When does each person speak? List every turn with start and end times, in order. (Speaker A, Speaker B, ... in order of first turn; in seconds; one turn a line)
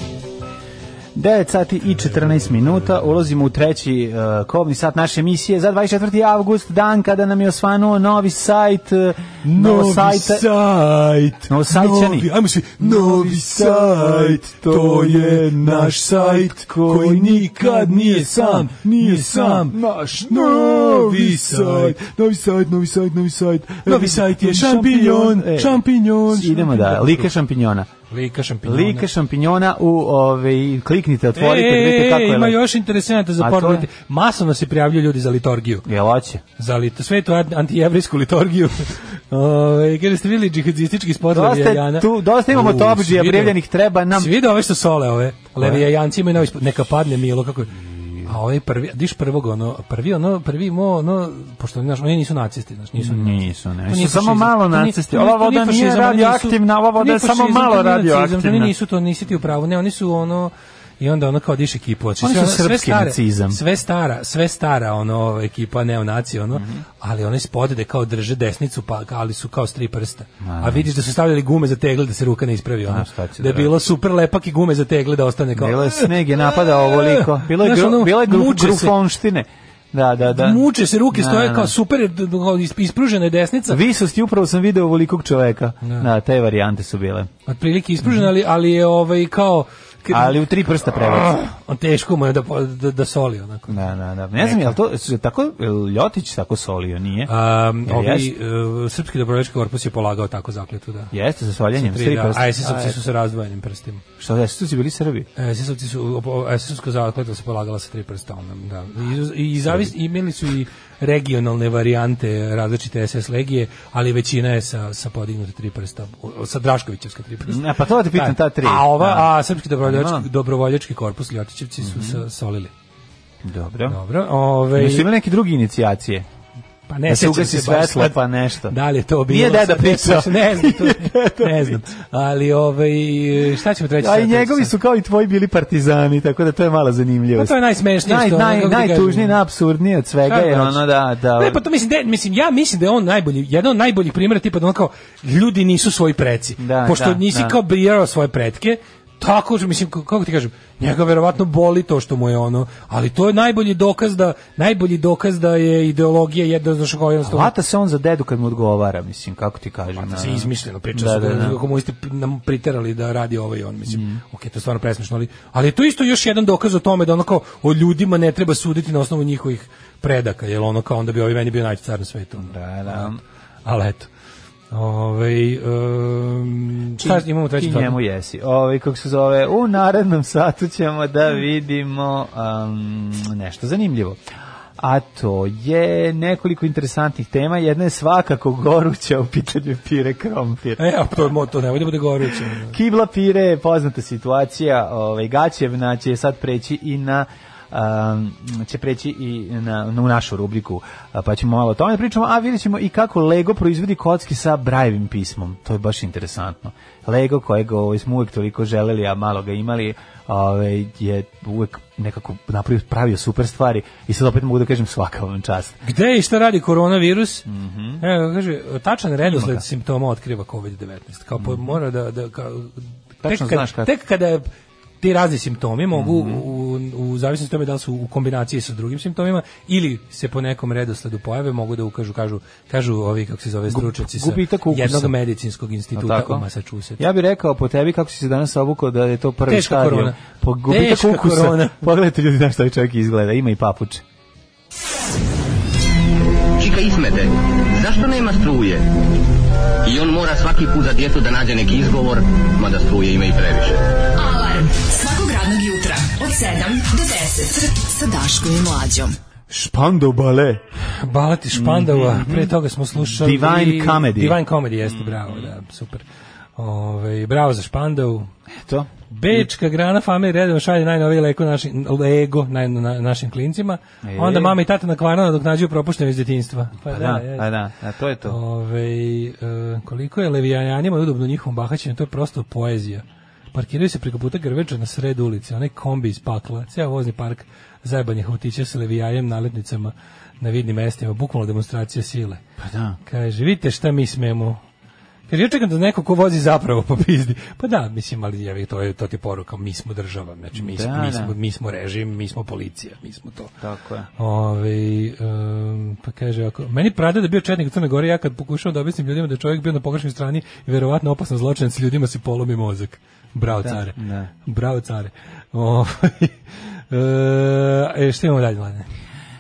Speaker A: 1.1-10.5
Speaker B: 9.4-22.0
Speaker A: 11.5-27.9
Speaker B: 23.8-27.3
Speaker B: 28.1-29.1
Speaker A: 28.6-32.6
Speaker B: 31.4-35.9
Speaker A: 33.4-33.9
Speaker A: 35.9-36.4
Speaker B: 36.6-43.6
Speaker A: 41.3-44.3
Speaker B: 44.1-79.0
Speaker A: 45.6-45.9
Speaker A: 47.9-48.3
Speaker A: 53.0-58.7
Speaker A: 62.2-63.6
Speaker A: 66.5-66.8
Speaker A: 70.4-70.9
Speaker A: 72.9-73.7
Speaker A: 75.6-81.7
Speaker B: 80.3-83.8
Speaker A: 83.7-87.3
Speaker B: 87.5-93.8
Speaker A: 90.1-91.3
Speaker A: 93.7-97.3
Speaker B: 94.4-94.8
Speaker B: 97.3-101.1
Speaker A: 97.8-98.3
Speaker A: 101.1-103.0
Speaker B: 101.8-104.0
Speaker A: 104.2-105.3
Speaker B: 105.4-122.7
Speaker A: 117.5-119.3
Speaker A: 119.8-120.3
Speaker A: 121.8-122.2
Speaker A: 123.4-124.0
Speaker B: 123.9-125.1
Speaker A: 124.7-126.3
Speaker B: 126.9-134.7
Speaker A: 127.1-128.8
Speaker A: 129.3-131.8
Speaker A: 134.0-141.6
Speaker B: 137.4-139.4
Speaker B: 140.3-157.5
Speaker A: 146.6-147.6
Speaker A: 157.2-161.6
Speaker B: 160.0-174.1
Speaker A: 163.9-164.2
Speaker A: 172.4-173.2
Speaker B: 174.7-178.0
Speaker A: 177.0-184.2
Speaker A: 184.8-190.8
Speaker B: 190.8-192.8
Speaker A: 192.6-215.8
Speaker B: 215.8-217.5
Speaker A: 217.5-218.0
Speaker B: 218.0-224.5
Speaker A: 219.2-219.7
Speaker A: 221.4-221.8
Speaker A: 223.2-223.9
Speaker B: 225.0-237.0
Speaker A: 225.9-226.4
Speaker A: 233.7-235.2
Speaker A: 235.9-236.4
Speaker A: 237.0-244.0
Speaker B: 239.5-241.8
Speaker C: 246.6-248.8
Speaker C: 249.8-253.8
Speaker D: 254.2-259.2
Speaker A: 259.5-260.6
Speaker B: 261.0-266.0
Speaker A: 261.5-265.5
Speaker B: 266.6-268.3
Speaker A: 268.5-269.5
Speaker B: 269.1-277.5
Speaker A: 274.0-274.6
Speaker A: 276.9-278.4
Speaker B: 278.3-292.4
Speaker A: 292.6-293.0
Speaker B: 293.0-294.6
Speaker B: 295.3-303.5
Speaker A: 300.5-301.3
Speaker A: 303.6-304.1
Speaker B: 304.2-316.4
Speaker A: 313.6-314.3
Speaker B: 316.9-318.9